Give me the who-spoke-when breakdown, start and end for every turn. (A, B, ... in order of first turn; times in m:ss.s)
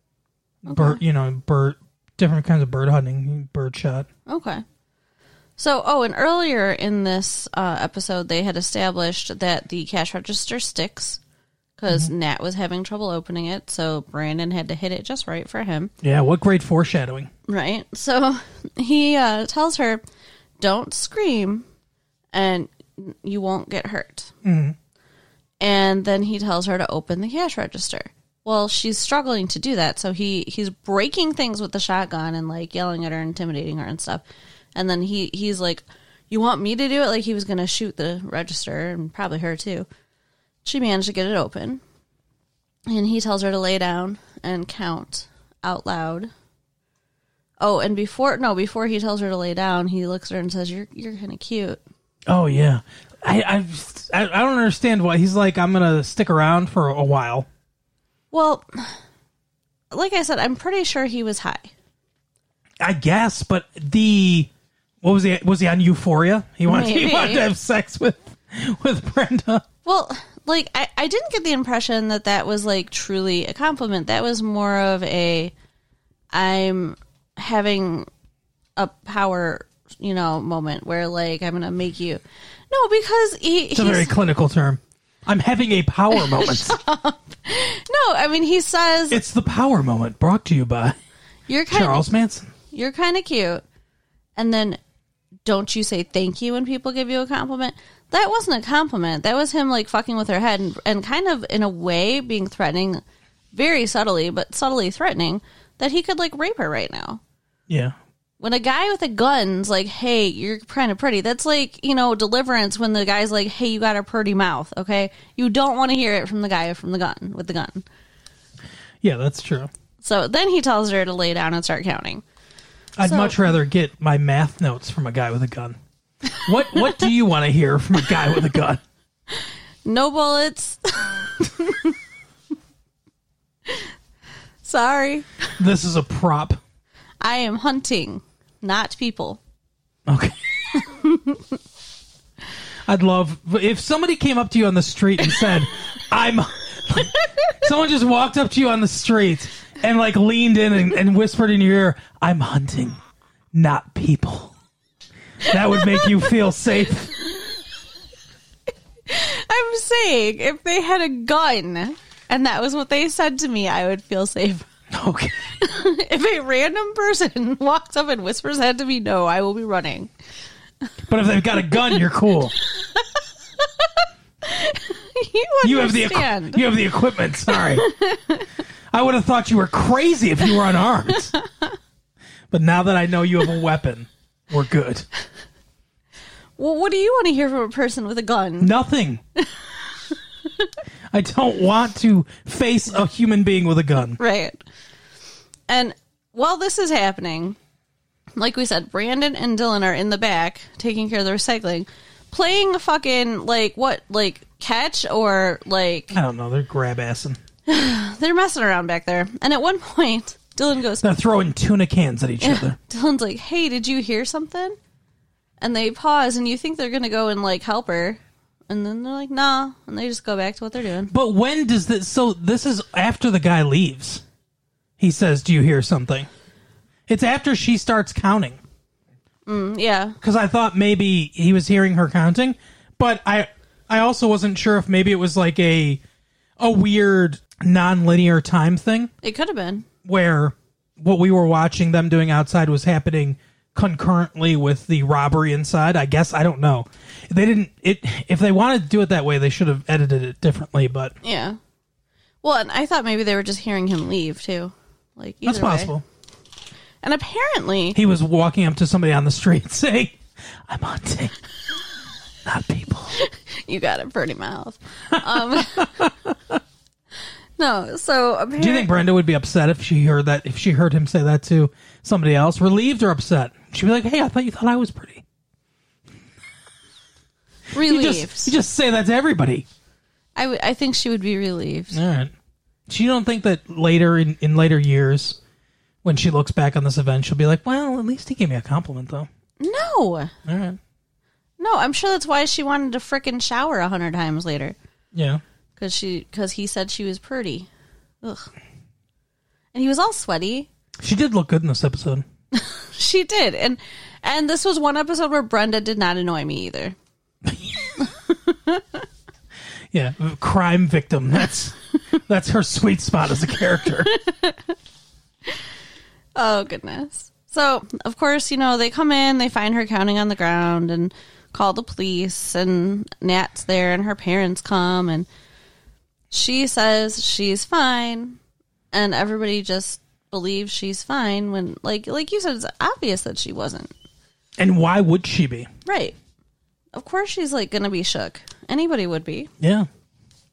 0:00.6-0:04.1 A
0:00.7-0:01.0 B
0:04.3-0:04.6 B
0:05.6-0:11.2 B
0:11.8-0:15.9 B
0:16.0-0:17.3 A
0:17.5-0:20.0 B
0:20.6-0:21.6 B
0:22.3-0:24.3 B
0:24.4-0:24.8 A
0:25.6-0:34.2 B
0:34.7-0:39.9 B
0:40.6-0:41.8 B
0:42.9-0:46.3 B
0:47.6-0:51.8 B
0:52.3-0:57.5 A
0:58.3-0:59.0 B
0:59.9-1:01.7 B
1:02.8-1:04.5 A
1:05.0-1:09.6 A
1:06.6-1:07.5 B
1:09.8-1:15.5 B
1:16.3-1:18.1 B
1:18.8-1:24.1 B
1:23.7-1:26.8 A
1:26.1-1:29.2 B
1:29.1-1:31.0 A
1:31.5-1:32.1 B
1:31.7-1:32.5 A
1:32.7-1:33.6 B
1:34.4-1:34.8 B
1:35.4-1:43.0 B
1:43.5-1:47.2 B
1:47.7-1:47.9 A
1:48.4-1:57.8 B
1:59.0-1:59.7 A
2:00.0-2:02.2 B
2:03.0-2:05.8 A
2:03.0-2:03.4 B
2:06.3-2:08.8 A
2:09.3-2:12.0 B
2:13.6-2:13.9 B
2:14.6-2:15.4 B
2:15.6-2:16.6 A
2:17.2-2:19.4 B
2:20.1-2:20.8 A
2:20.7-2:21.5 B
2:22.8-2:33.0 A
2:33.5-2:34.5 A
2:35.4-2:37.2 A
2:35.5-2:36.2 B
2:39.1-2:44.7 B
2:44.9-2:45.4 A
2:45.6-2:50.1 B
2:51.1-2:52.5 A
2:52.6-2:53.1 B
2:53.6-2:56.6 B
2:55.6-2:57.9 A
2:57.5-2:58.5 B
2:58.9-3:01.3 A
3:01.3-3:01.7 B
3:02.5-3:05.0 A
3:06.6-3:08.7 B
3:08.6-3:09.2 A
3:09.4-3:10.7 B
3:11.1-3:14.2 A
3:14.1-3:14.6 B
3:15.7-3:17.6 B
3:18.4-3:26.2 B
3:26.1-3:27.4 A
3:27.7-3:31.1 B
3:31.0-3:32.8 A
3:32.4-3:34.8 B
3:35.6-3:41.1 B
3:41.1-3:44.2 A
3:45.0-3:46.3 A
3:47.1-3:48.6 A
3:49.5-3:50.2 B
3:50.2-3:56.0 A
3:56.6-3:59.1 A
3:59.2-3:59.9 B
4:00.0-4:11.2 A
4:11.2-4:11.6 B
4:12.4-4:15.9 B
4:15.4-4:16.0 A
4:17.0-4:18.0 B
4:17.9-4:21.3 A
4:22.4-4:23.2 A
4:23.1-4:26.1 B
4:25.1-4:26.6 A
4:27.6-4:28.9 B
4:28.6-4:35.2 A
4:37.7-4:38.5 B
4:37.8-4:39.6 A
4:40.4-4:42.0 B
4:41.9-4:42.3 A
4:42.9-4:45.4 A
4:46.0-4:49.3 A
4:49.6-4:50.3 B
4:50.4-4:50.8 A
4:51.6-4:54.8 B
4:55.1-4:55.4 A
4:55.8-4:57.7 B
4:58.2-4:58.5 B
4:59.7-5:00.7 B
5:01.0-5:02.2 A
5:02.5-5:07.0 B
5:07.5-5:07.9 A
5:08.0-5:09.0 B
5:09.9-5:14.1 A
5:14.0-5:14.7 B
5:16.4-5:25.3 B
5:26.3-5:28.4 B
5:28.9-5:33.9 B
5:34.6-5:35.7 A
5:35.8-5:36.2 B
5:36.9-5:39.5 B
5:39.6-5:39.9 A